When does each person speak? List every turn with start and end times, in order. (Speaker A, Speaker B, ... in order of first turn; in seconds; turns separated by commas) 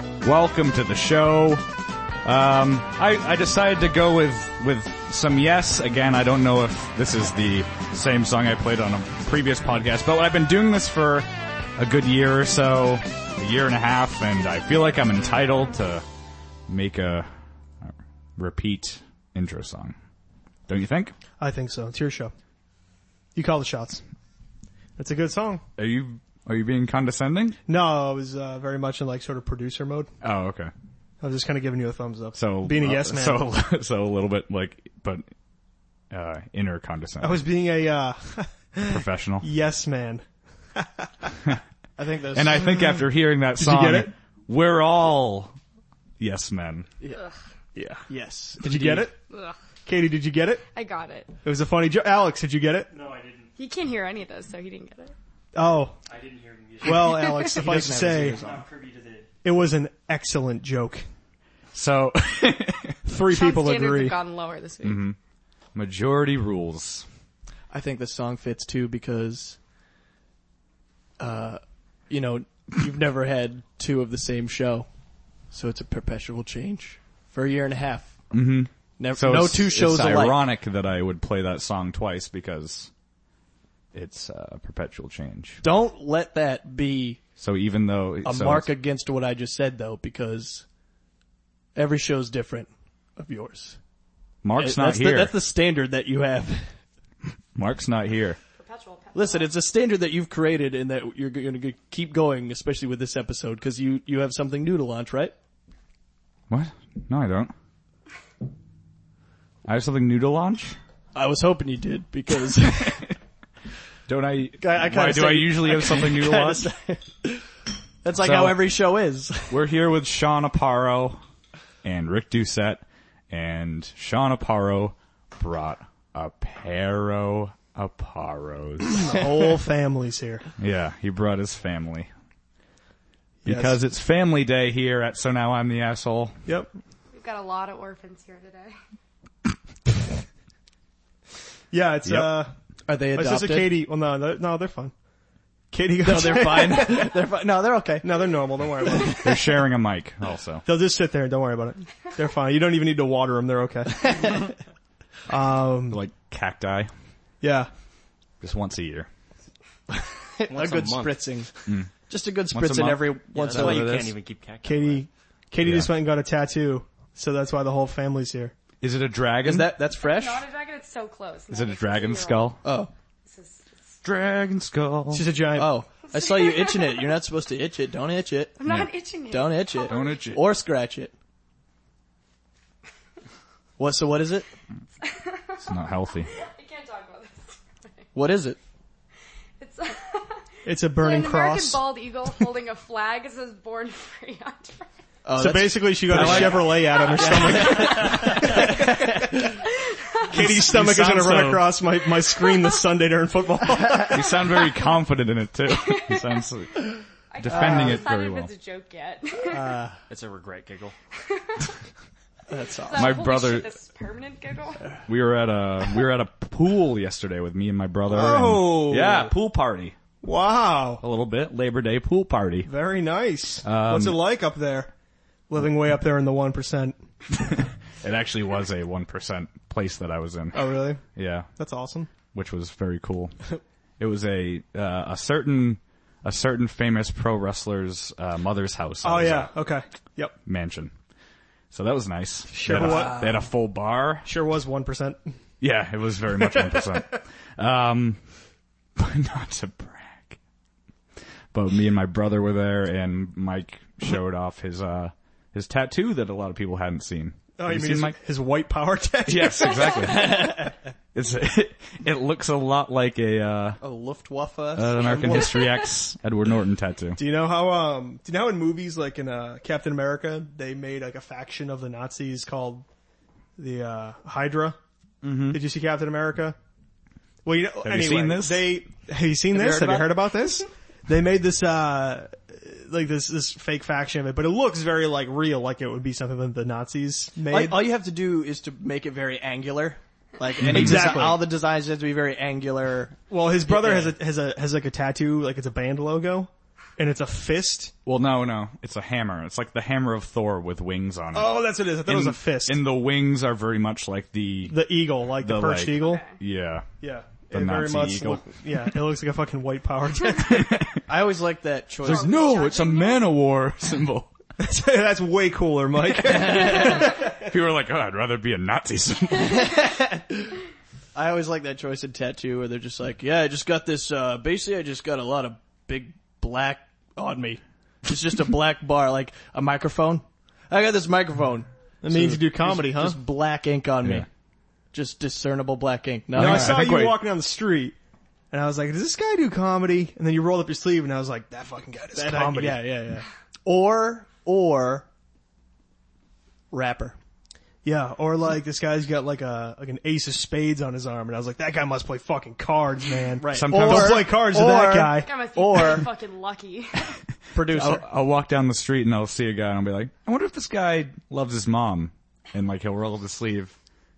Speaker A: 0.2-1.6, Speaker A: 2.2-16.0, Speaker A: 16.7-17.3, Speaker A: 17.8-19.9, Speaker A: 20.7-21.1, Speaker B: 21.4-22.3, Speaker B: 23.3-24.0, Speaker B: 25.0-25.6, Speaker A: 25.8-27.6, Speaker B: 27.7-30.1, Speaker A: 30.2-30.7, Speaker B: 31.2-33.5, Speaker A: 32.4-35.2, Speaker A: 36.1-37.4, Speaker B: 37.2-40.2, Speaker A: 38.8-39.5, Speaker B: 40.8-41.3, Speaker C: 42.0-42.7, Speaker A: 42.3-45.6, Speaker B: 43.6-44.1, Speaker A: 46.2-46.9, Speaker B: 47.7-48.1, Speaker C: 48.1-49.1, Speaker B: 48.6-49.2, Speaker B: 49.9-50.6, Speaker D: 50.7-51.3, Speaker B: 51.4-52.9, Speaker E: 52.9-53.5, Speaker D: 53.5-55.1, Speaker B: 55.5-56.0, Speaker E: 56.1-59.3, Speaker B: 56.8-58.6, Speaker C: 57.4-58.6, Speaker B: 59.4-61.0, Speaker A: 61.7-63.0, Speaker B: 63.0-64.2, Speaker D: 63.2-65.1, Speaker A: 64.8-65.2, Speaker A: 65.7-67.0, Speaker C: 67.7-69.6, Speaker C: 71.2-74.9, Speaker C: 75.5-78.1, Speaker A: 78.3-82.9, Speaker C: 79.0-80.4, Speaker A: 83.9-85.6, Speaker C: 85.6-87.2, Speaker A: 87.4-88.7, Speaker C: 88.2-90.6, Speaker C: 91.8-93.8, Speaker A: 94.4-95.3, Speaker C: 94.5-96.7, Speaker A: 97.5-98.4, Speaker D: 98.6-99.5, Speaker C: 99.2-105.3, Speaker A: 106.5-107.5, Speaker A: 109.6-110.8, Speaker C: 111.2-113.1, Speaker A: 114.1-116.7, Speaker C: 114.6-117.4, Speaker C: 118.0-119.6, Speaker A: 118.2-118.7, Speaker A: 119.5-121.2, Speaker A: 121.8-129.1, Speaker B: 129.0-130.4, Speaker A: 130.6-132.1, Speaker A: 133.4-136.4, Speaker B: 136.4-136.7, Speaker D: 137.1-138.8, Speaker B: 141.7-142.5, Speaker A: 142.1-142.3, Speaker C: 142.9-143.8, Speaker B: 143.1-144.9, Speaker B: 145.7-147.2, Speaker C: 146.0-148.1, Speaker B: 148.0-149.4, Speaker A: 149.1-150.7, Speaker B: 150.7-154.4, Speaker B: 155.3-156.0, Speaker A: 155.9-156.9, Speaker B: 157.4-157.7, Speaker A: 158.4-159.1, Speaker C: 160.4-161.5, Speaker E: 160.5-161.2, Speaker C: 162.0-164.1, Speaker A: 162.5-164.1, Speaker E: 163.3-165.0, Speaker B: 164.6-168.5, Speaker A: 165.6-165.9, Speaker A: 168.8-169.8, Speaker C: 169.4-170.4, Speaker D: 170.0-172.6, Speaker A: 171.5-172.6, Speaker C: 172.6-172.9, Speaker D: 173.2-173.7, Speaker A: 174.0-175.3, Speaker B: 175.1-175.8, Speaker C: 175.6-178.6, Speaker D: 176.1-177.1, Speaker D: 178.6-180.2, Speaker A: 178.7-178.9, Speaker C: 179.3-181.1, Speaker A: 179.9-180.4, Speaker C: 183.8-184.5, Speaker D: 185.0-188.0, Speaker A: 185.6-186.3, Speaker C: 188.2-188.6, Speaker D: 189.6-194.8, Speaker B: 190.7-191.8, Speaker C: 195.2-199.3, Speaker B: 195.3-199.5, Speaker A: 196.1-196.8, Speaker D: 197.2-198.5, Speaker B: 200.3-204.3, Speaker A: 200.3-201.7, Speaker C: 200.6-201.3, Speaker A: 204.1-208.5, Speaker D: 205.8-206.2, Speaker D: 207.3-209.8, Speaker C: 207.5-208.0, Speaker C: 209.5-209.9, Speaker E: 210.1-210.9, Speaker D: 211.3-211.8, Speaker C: 212.5-213.2, Speaker D: 212.8-214.9, Speaker A: 212.9-213.7, Speaker A: 215.1-219.9, Speaker B: 218.1-219.3, Speaker B: 220.2-221.0, Speaker A: 221.0-222.7, Speaker B: 222.7-224.9, Speaker A: 223.6-224.2, Speaker B: 225.5-227.0, Speaker A: 228.0-231.5, Speaker B: 230.5-232.1, Speaker A: 232.2-233.3, Speaker A: 234.0-239.5, Speaker B: 239.0-240.3, Speaker A: 240.4-240.9, Speaker A: 241.7-244.3, Speaker B: 242.5-243.2, Speaker C: 242.7-243.4, Speaker B: 244.2-245.3, Speaker A: 245.6-248.2, Speaker A: 249.0-250.4, Speaker A: 251.5-258.2, Speaker B: 257.6-260.0, Speaker A: 259.2-260.6, Speaker C: 260.0-260.8, Speaker A: 261.1-263.8, Speaker C: 263.8-265.5, Speaker A: 264.8-267.2, Speaker B: 267.1-272.9, Speaker B: 273.6-274.8, Speaker A: 275.2-275.6, Speaker B: 275.5-276.6, Speaker B: 277.4-287.9, Speaker A: 277.8-278.8, Speaker C: 279.5-280.2, Speaker C: 287.4-293.2, Speaker A: 290.6-291.2, Speaker B: 290.6-291.4, Speaker B: 293.3-297.9, Speaker C: 293.7-294.1, Speaker A: 298.0-306.9, Speaker B: 301.3-302.8, Speaker B: 304.7-306.2, Speaker D: 305.9-306.4, Speaker B: 307.0-310.8, Speaker A: 307.5-308.6, Speaker A: 310.3-311.0, Speaker C: 311.1-312.4, Speaker D: 312.0-313.3, Speaker A: 312.0-314.3, Speaker B: 314.6-317.2, Speaker C: 316.2-317.1, Speaker A: 316.5-319.8, Speaker C: 319.4-320.5, Speaker C: 321.1-334.2, Speaker B: 332.0-333.2, Speaker C: 334.9-336.8, Speaker A: 336.3-337.2, Speaker B: 336.3-337.9, Speaker B: 338.5-342.9, Speaker C: 342.1-345.1, Speaker C: 346.7-347.2, Speaker B: 347.8-355.3, Speaker C: 353.4-356.1, Speaker A: 353.5-354.3, Speaker D: 355.1-357.1, Speaker C: 357.5-358.0, Speaker A: 357.6-363.7